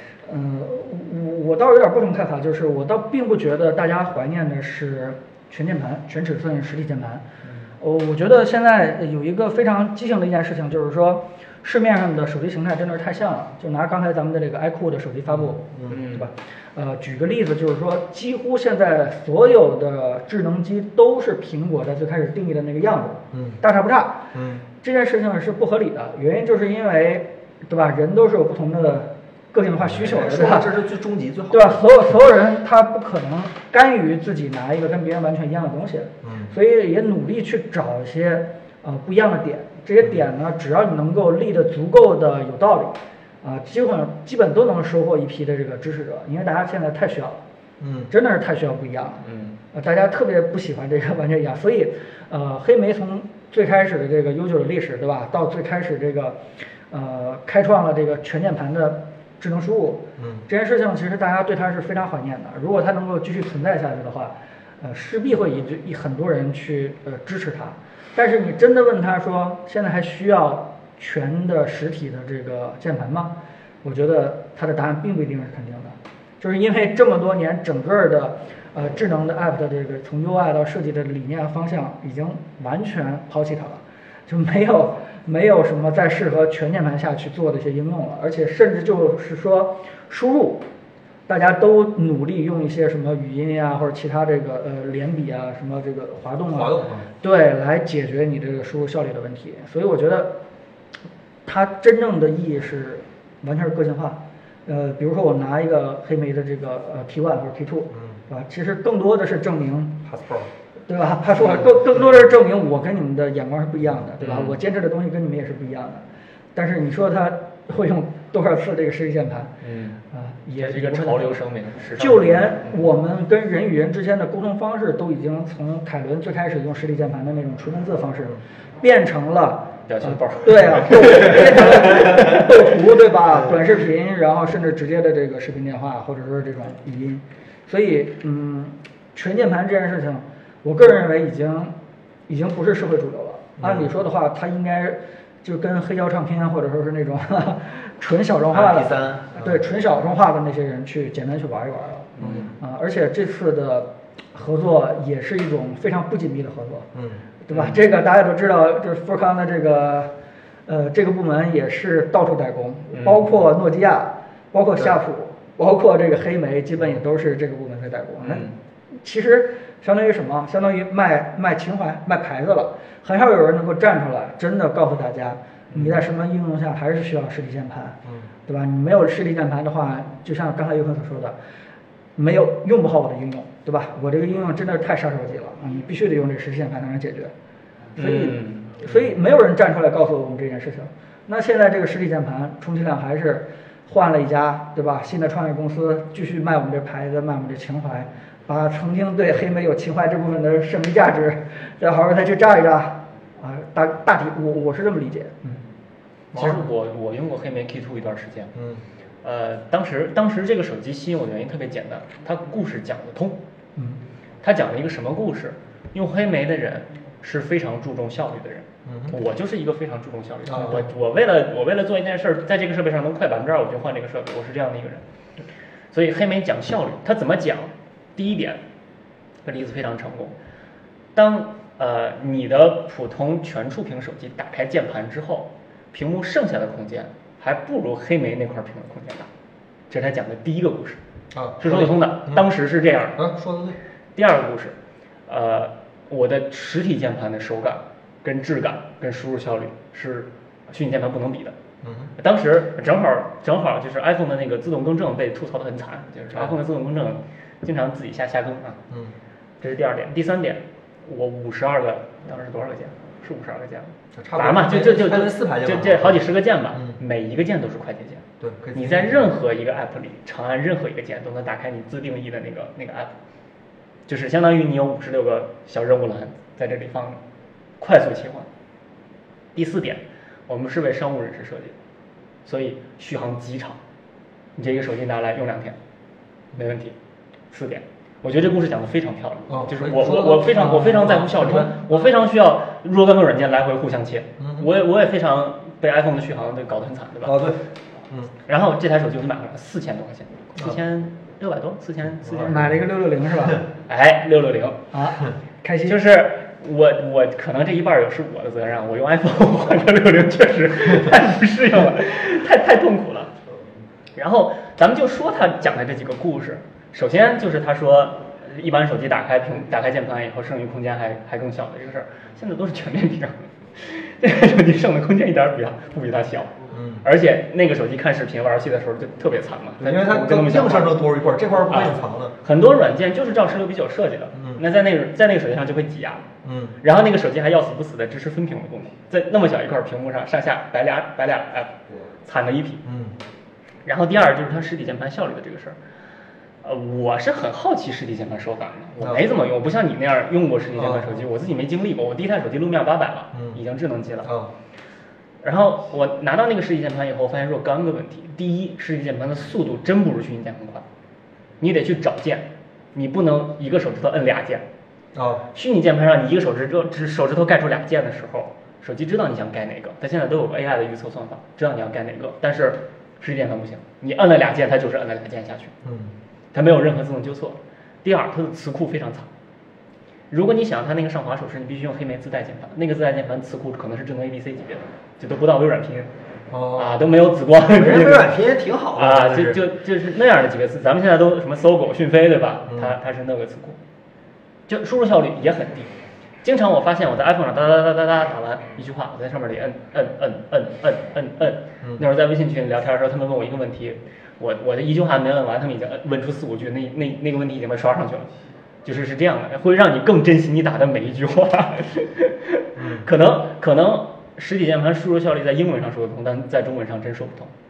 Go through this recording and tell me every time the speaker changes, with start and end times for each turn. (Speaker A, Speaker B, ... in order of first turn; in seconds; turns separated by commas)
Speaker A: 0.2-7.2, Speaker B: 7.4-7.7, Speaker A: 7.8-24.2, Speaker C: 15.3-16.0, Speaker B: 15.9-16.3, Speaker C: 23.3-23.6, Speaker C: 24.3-24.6, Speaker A: 24.8-30.7, Speaker C: 29.8-32.1, Speaker A: 31.5-47.4, Speaker C: 36.2-36.5, Speaker C: 47.8-48.1, Speaker A: 48.1-90.6, Speaker B: 49.2-49.5, Speaker C: 60.2-60.5, Speaker A: 91.3-100.3, Speaker C: 96.5-97.1, Speaker A: 101.4-110.0, Speaker C: 107.9-108.2, Speaker C: 110.0-110.5, Speaker A: 110.9-116.0, Speaker C: 111.4-112.0, Speaker B: 114.2-114.6, Speaker A: 116.5-119.5, Speaker B: 119.6-120.0, Speaker A: 120.1-121.4, Speaker B: 120.6-122.8, Speaker A: 122.0-141.7, Speaker B: 129.9-132.2, Speaker A: 142.3-156.9, Speaker C: 143.6-143.9, Speaker C: 148.5-149.6, Speaker B: 152.2-152.5, Speaker C: 152.2-152.5, Speaker C: 156.9-157.2, Speaker A: 157.4-160.1, Speaker B: 157.5-157.8, Speaker A: 160.7-181.4, Speaker B: 162.9-163.3, Speaker B: 168.2-168.5, Speaker A: 182.2-187.3, Speaker B: 187.9-189.0, Speaker A: 187.9-205.6, Speaker C: 206.3-206.6, Speaker B: 206.3-208.5, Speaker C: 208.5-208.8, Speaker B: 209.2-213.4, Speaker A: 213.8-214.0, Speaker B: 214.4-225.0, Speaker C: 218.9-219.2, Speaker C: 220.5-220.9, Speaker B: 225.9-228.6, Speaker B: 229.4-230.3, Speaker B: 231.1-239.3, Speaker B: 239.9-241.0, Speaker C: 241.3-242.5, Speaker B: 241.6-243.2, Speaker C: 243.2-243.8, Speaker B: 244.2-244.7, Speaker B: 245.3-251.6, Speaker C: 251.8-252.1, Speaker B: 252.2-258.8, Speaker B: 259.6-273.1, Speaker C: 264.1-267.0, Speaker C: 268.4-269.3, Speaker B: 274.1-277.2, Speaker B: 277.8-278.5, Speaker B: 279.5-281.7, Speaker B: 282.4-283.8, Speaker B: 284.6-285.8, Speaker B: 286.5-286.9, Speaker B: 287.5-297.5, Speaker C: 289.5-291.9, Speaker C: 294.4-294.7, Speaker C: 297.2-298.3, Speaker B: 298.4-302.7, Speaker C: 302.2-302.7, Speaker A: 302.4-303.6, Speaker B: 303.9-304.8, Speaker A: 304.9-306.0, Speaker B: 305.8-313.3, Speaker B: 314.1-331.0, Speaker C: 326.7-327.0, Speaker C: 329.8-332.3, Speaker B: 331.7-336.2, Speaker C: 334.3-334.6, Speaker C: 336.4-336.8, Speaker B: 336.8-342.8, Speaker C: 342.8-343.1, Speaker B: 343.8-345.8, Speaker B: 346.6-354.3, Speaker C: 349.0-349.3, Speaker C: 350.7-351.1, Speaker C: 353.3-353.6, Speaker C: 354.2-354.5, Speaker B: 355.4-360.8, Speaker B: 361.6-364.6, Speaker C: 365.1-365.4, Speaker B: 365.5-375.7, Speaker C: 375.8-376.1, Speaker B: 376.5-379.3, Speaker B: 380.3-386.1, Speaker C: 386.5-387.0, Speaker B: 386.7-388.4, Speaker C: 387.7-389.6, Speaker B: 388.9-393.8, Speaker C: 392.7-392.9, Speaker B: 394.7-395.9, Speaker B: 396.4-408.3, Speaker C: 401.8-402.1, Speaker B: 408.8-417.5, Speaker C: 412.8-413.1